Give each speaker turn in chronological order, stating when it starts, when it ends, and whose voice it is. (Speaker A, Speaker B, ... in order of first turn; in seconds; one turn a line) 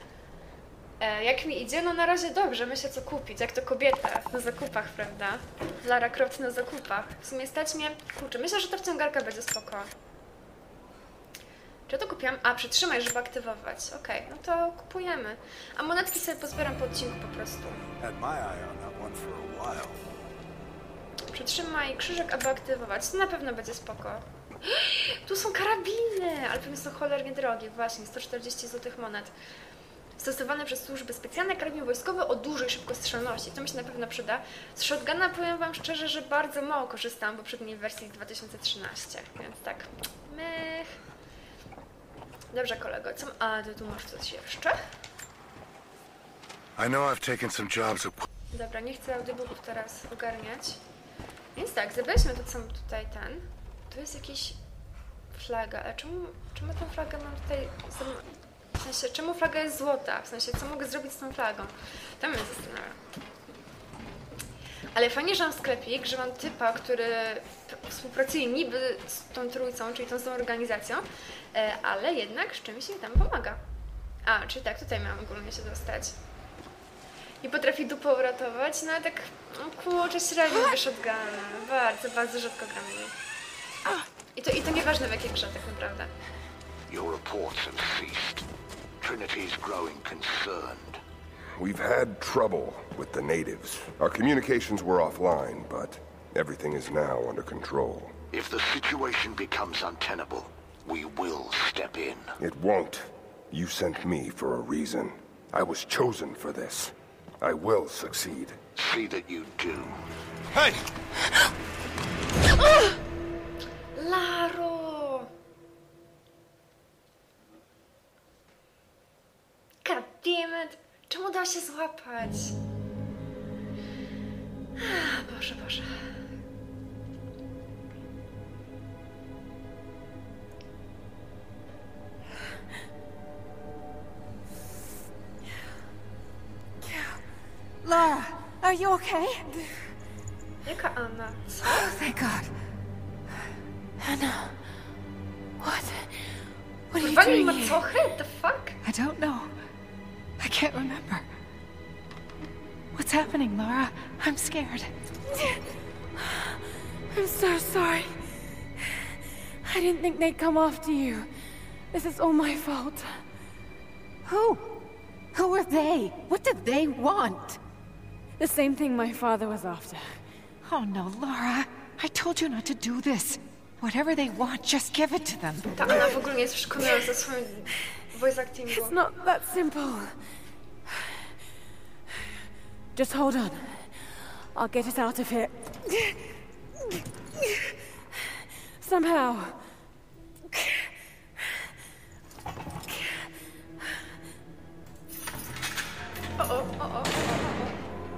Speaker A: 1.0-9.9
Speaker A: 11.9-17.8
Speaker B: 18.0-20.0
Speaker A: 21.3-29.3
Speaker A: 30.2-41.0
Speaker A: 42.5-44.8
Speaker B: 46.8-48.2
Speaker A: 48.5-50.8
Speaker A: 51.5-54.6
Speaker A: 55.3-63.0
Speaker A: 64.9-73.6
Speaker A: 74.2-76.2
Speaker A: 77.4-83.1
Speaker A: 84.3-86.1
Speaker C: 86.9-88.5
Speaker C: 89.0-91.0
Speaker D: 91.6-98.1
Speaker C: 98.3-102.4
Speaker D: 102.4-108.6
Speaker C: 108.8-110.0
Speaker B: 110.5-110.8
Speaker A: 113.9-115.3
Speaker A: 119.8-122.5
Speaker A: 124.8-126.1
Speaker E: 137.8-139.7
Speaker A: 140.6-142.0
Speaker E: 141.7-142.5
Speaker E: 144.0-144.6
Speaker E: 145.6-146.0
Speaker E: 146.9-147.8
Speaker A: 147.0-148.8
Speaker E: 148.8-149.5
Speaker E: 150.4-151.2
Speaker E: 152.9-154.9
Speaker F: 155.3-155.6
Speaker F: 156.2-156.5
Speaker F: 157.1-158.1
Speaker F: 159.6-161.3
Speaker F: 161.9-163.2
Speaker E: 164.2-167.6
Speaker F: 168.4-170.2
Speaker E: 170.6-176.1
Speaker A: 175.8-179.0
Speaker F: 178.8-180.1
Speaker F: 182.9-183.9
Speaker F: 184.5-186.2
Speaker F: 186.9-187.7
Speaker F: 188.8-189.6
Speaker F: 190.5-190.8
Speaker A: 196.4-197.8